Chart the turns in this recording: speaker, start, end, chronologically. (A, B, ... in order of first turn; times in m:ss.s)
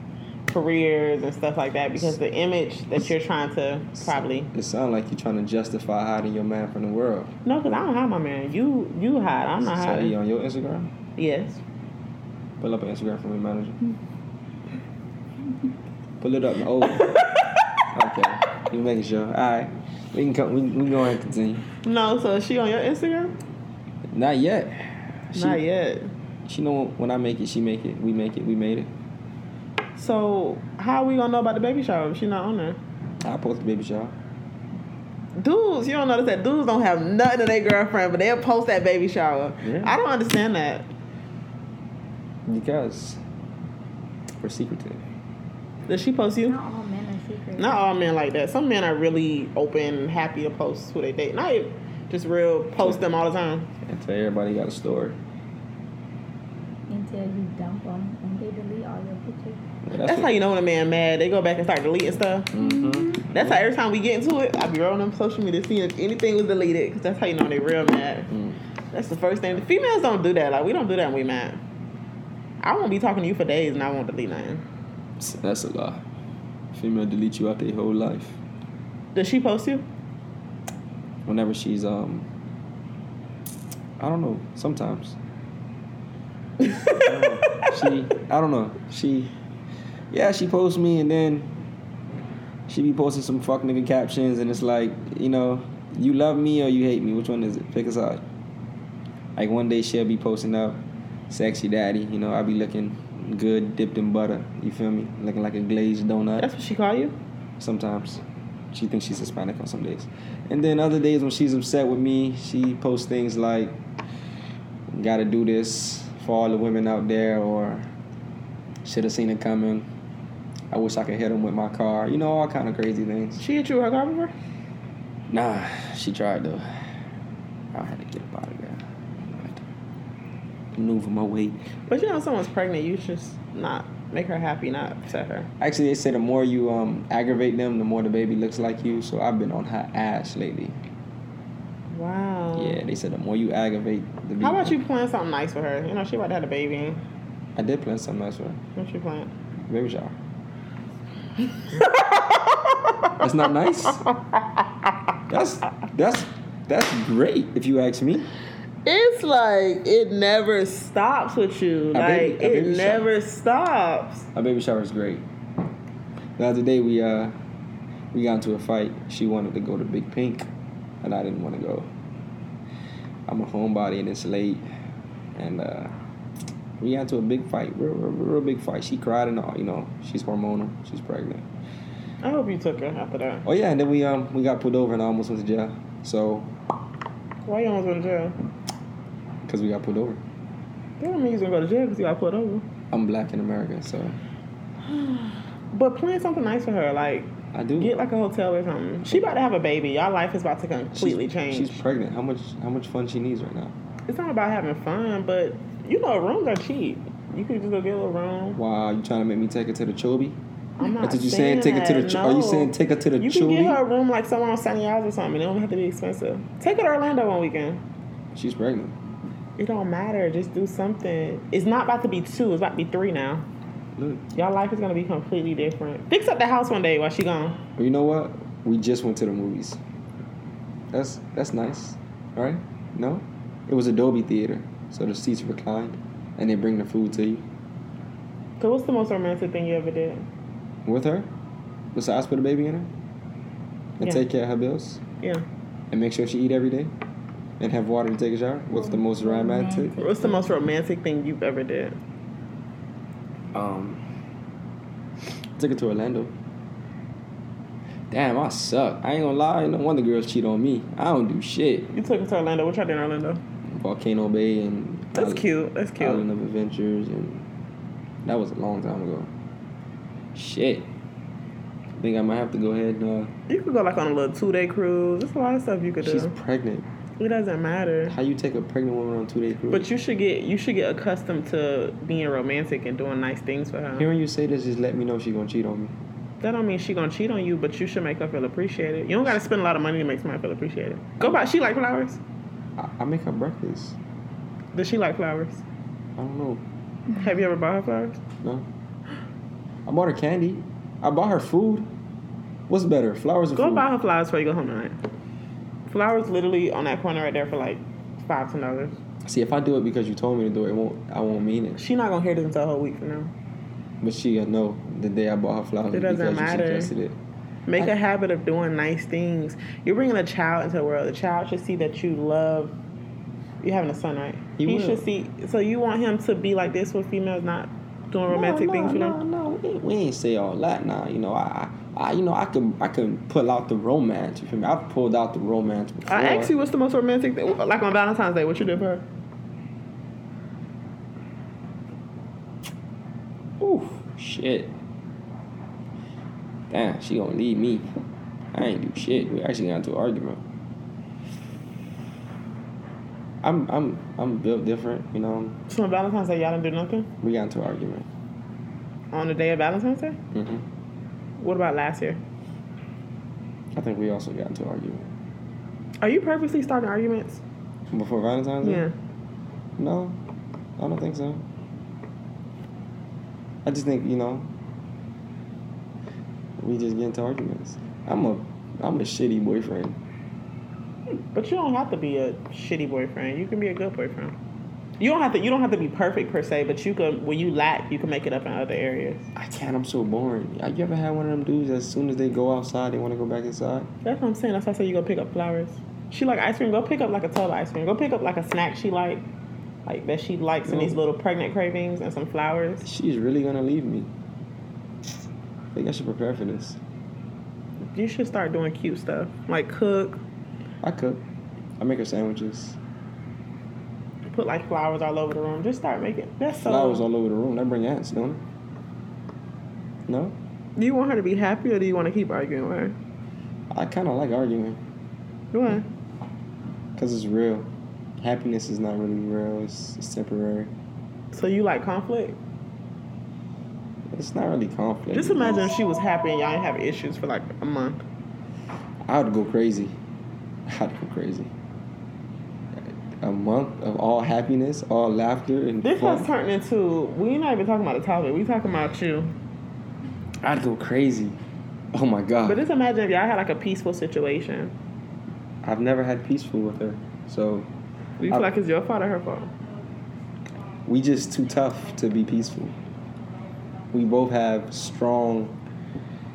0:00.5-0:04.5 A
0:04.0-0:07.3 B
0:07.4-0:10.1 A
0:09.6-0:10.9 B
0:11.2-0:11.6 A
0:12.6-0:13.8 B
0:16.2-0:17.2 B
0:16.9-0:17.7 A
0:17.9-0:21.7 B
0:21.8-0:23.3 A
0:24.1-0:25.6 B
0:25.3-0:26.1 A
0:26.5-0:28.9 B
0:30.0-0:32.8 A
0:33.2-0:34.2 B
0:35.4-0:40.9 A
0:39.6-0:40.0 B
0:42.5-0:43.2 B
0:44.4-0:45.0 B
0:45.9-0:46.6 A
0:46.5-0:47.9 C
0:47.6-0:53.7 A
0:53.8-0:55.2 B
0:56.9-0:59.6 C
0:59.8-1:00.4 B
1:00.0-1:02.5 A
1:02.5-1:03.7 B
1:02.6-1:03.0 C
1:03.3-1:08.3 A
1:08.3-1:08.6 B
1:08.9-1:11.6 A
1:12.6-1:14.6 A
1:15.2-1:16.0 B
1:16.7-1:18.4 B
1:19.1-1:19.9 A
1:21.3-1:22.3 B
1:24.0-1:25.2 B
1:26.6-1:27.7 A
1:26.8-1:29.3 B
1:30.1-1:31.6 B
1:32.7-1:38.2 B
1:39.4-1:46.5 B
1:46.4-1:47.2 A
1:47.6-1:53.8 B
1:54.9-1:57.9 B
1:58.8-1:59.9 B
2:00.7-2:03.4 B
2:03.4-2:04.3 A
2:05.3-2:06.9 B
2:07.7-2:09.6 B
2:10.8-2:11.6 B
2:11.9-2:15.5 A
2:15.6-2:20.8 B
2:21.9-2:22.8 A
2:22.6-2:24.8 B
2:24.4-2:27.0 A
2:27.6-2:28.6 B
2:28.8-2:29.3 A
2:29.7-2:30.2 B
2:31.5-2:33.3 A
2:33.2-2:34.0 B
2:33.9-2:34.9 A
2:35.3-2:38.3 B
2:38.8-2:44.3 A
2:41.9-2:43.1 B
2:44.4-2:45.2 B
2:46.4-2:47.4 B
2:48.1-2:50.5 B
2:51.0-2:51.9 B
2:53.3-2:54.7 B
2:55.4-2:56.0 B
2:56.8-3:01.5 B
3:02.2-3:03.5 A
3:03.4-3:06.6 B
3:07.5-3:08.4 A
3:09.4-3:10.2 B
3:11.0-3:12.7 A
3:12.9-3:14.2 B
3:14.8-3:21.8 A
3:17.5-3:18.0 B
3:19.0-3:19.4 B
3:20.9-3:23.8 B
3:24.1-3:28.6 A
3:28.6-3:30.4 B
3:30.8-3:37.8 A
3:31.0-3:33.8 B
3:38.3-3:39.0 B
3:39.6-3:43.5 A
3:44.0-3:44.3 B
3:44.3-3:47.6 A
3:47.8-3:49.8 B
3:50.9-3:57.5 B
3:58.6-4:00.3 A
4:00.8-4:01.3 B
4:01.9-4:02.9 B
4:04.0-4:05.0 B
4:05.9-4:06.9 B
4:07.6-4:10.0 B
4:08.7-4:10.6 C
4:10.0-4:12.0 A
4:13.5-4:14.0 B
4:15.6-4:16.3 B
4:18.1-4:21.9 B
4:21.9-4:23.4 A
4:23.7-4:25.5 B
4:25.1-4:26.2 A
4:26.0-4:27.5 B
4:28.2-4:29.3 B
4:30.3-4:30.9 B
4:32.0-4:33.3 B
4:33.5-4:36.3 A
4:36.0-4:36.9 B
4:37.2-4:38.2 A
4:38.1-4:39.9 B
4:39.7-4:44.1 A
4:44.0-4:46.0 B
4:46.4-4:52.2 A
4:52.8-4:54.0 B
4:54.7-4:55.6 A
4:56.2-4:56.6 B
4:57.1-4:58.2 A
4:58.4-4:58.7 B
4:59.9-5:01.9 B
5:02.7-5:03.9 B
5:03.6-5:05.0 A
5:05.9-5:09.0 A
5:09.2-5:11.8 B
5:11.8-5:13.3 A
5:14.0-5:17.2 B
5:15.9-5:16.9 A
5:17.7-5:22.8 A
5:23.6-5:29.2 A
5:24.6-5:25.0 B
5:28.3-5:36.5 B
5:36.1-5:39.1 A
5:43.6-5:44.8 B
5:46.7-5:47.9 B
5:48.5-5:50.4 B
5:53.4-5:55.6 B
5:55.7-5:57.1 A
5:57.2-5:58.1 B
5:59.1-6:00.2 A
6:00.3-6:00.7 B
6:01.4-6:02.2 A
6:03.7-6:05.1 B
6:06.0-6:07.4 A
6:07.9-6:08.9 B
6:08.6-6:08.9 A
6:09.8-6:10.2 B
6:10.8-6:11.5 B
6:13.6-6:14.5 B
6:16.6-6:20.0 B
6:21.3-6:24.4 A
6:25.0-6:29.2 A
6:29.4-6:33.9 B
6:34.0-6:39.2 A
6:39.9-6:42.9 A
6:40.6-6:41.0 B
6:42.8-6:44.1 B
6:45.7-6:46.8 B
6:47.9-6:50.2 A
6:50.8-6:51.2 B
6:51.8-6:52.8 B
6:54.3-6:57.0 A
6:56.6-6:58.4 B
7:00.1-7:00.4 B
7:00.8-7:03.0 A
7:03.7-7:04.8 B
7:05.5-7:05.9 A
7:07.0-7:10.7 B
7:11.3-7:12.4 A
7:14.1-7:15.7 B
7:15.1-7:18.0 A
7:19.1-7:20.0 B
7:20.7-7:21.5 B
7:22.8-7:26.3 B
7:25.8-7:29.3 A
7:30.4-7:31.4 B
7:31.9-7:32.6 B
7:32.5-7:34.8 A
7:35.6-7:37.7 B
7:38.2-7:39.5 A
7:40.9-7:42.8 B
7:43.9-7:45.6 B